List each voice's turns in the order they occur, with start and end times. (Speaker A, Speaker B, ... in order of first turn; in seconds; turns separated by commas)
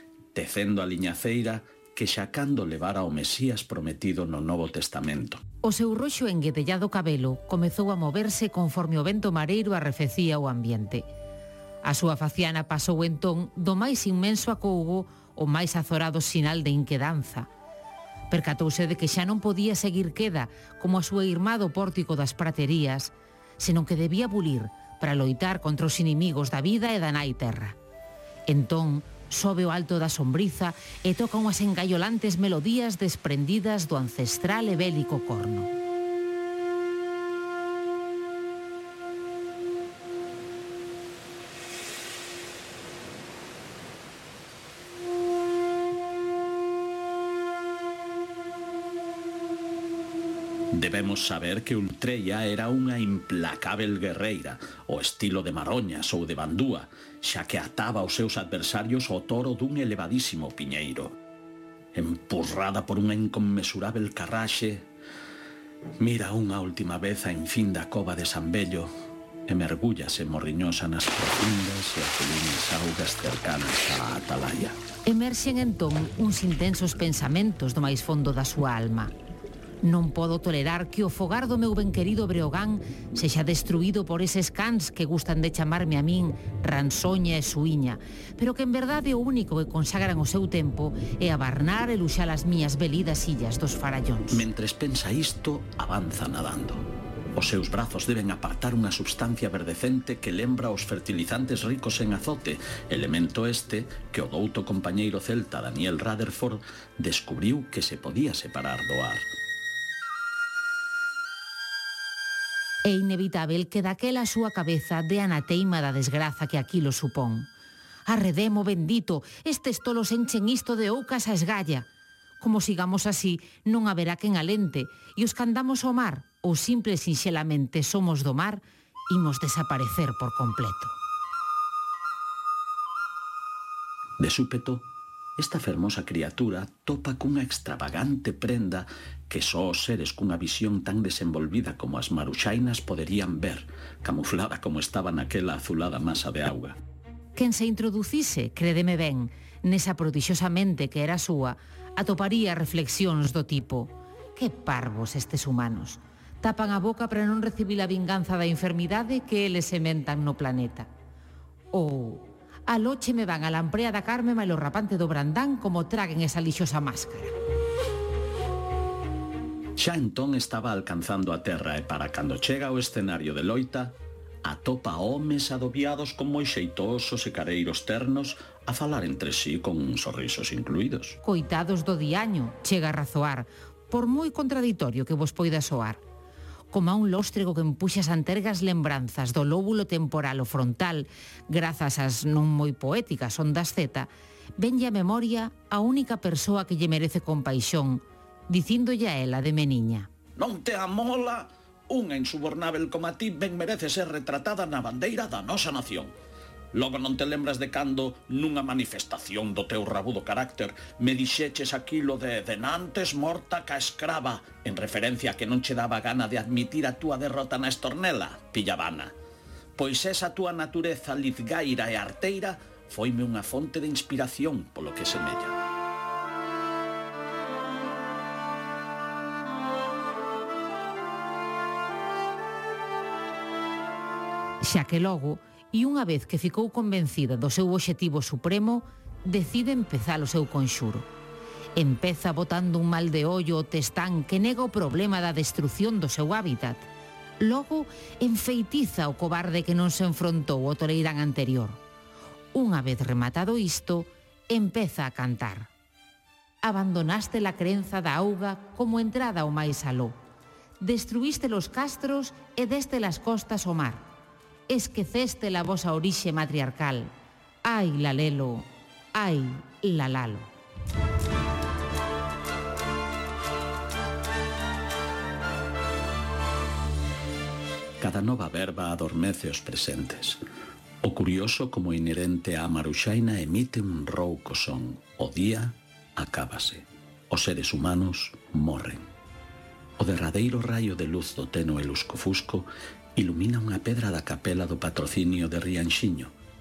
Speaker A: 0.3-5.4, Speaker B: 5.6-11.1, Speaker B: 11.8-17.5, Speaker B: 18.3-27.8, Speaker B: 28.5-35.7, Speaker A: 50.7-61.2, Speaker A: 61.9-64.9, Speaker A: 66.0-68.9, Speaker A: 69.5-74.8, Speaker B: 75.0-79.1, Speaker B: 79.8-94.5, Speaker A: 94.3-109.3, Speaker B: 112.8-117.5, Speaker B: 118.1-121.9, Speaker B: 122.4-131.0, Speaker A: 134.2-146.8, Speaker B: 147.4-160.9, Speaker B: 161.7-167.3, Speaker A: 169.8-181.2, Speaker B: 181.2-186.0, Speaker B: 186.7-200.1, Speaker A: 200.4-206.1, Speaker A: 206.7-219.2, Speaker A: 219.8-225.6, Speaker B: 234.6-241.1, Speaker B: 241.8-246.8, Speaker B: 247.4-251.8, Speaker B: 252.5-255.7, Speaker B: 256.6-260.2, Speaker B: 260.8-264.1, Speaker B: 264.7-267.1, Speaker B: 267.6-270.5, Speaker A: 278.0-280.4, Speaker A: 281.0-289.1, Speaker A: 290.0-296.3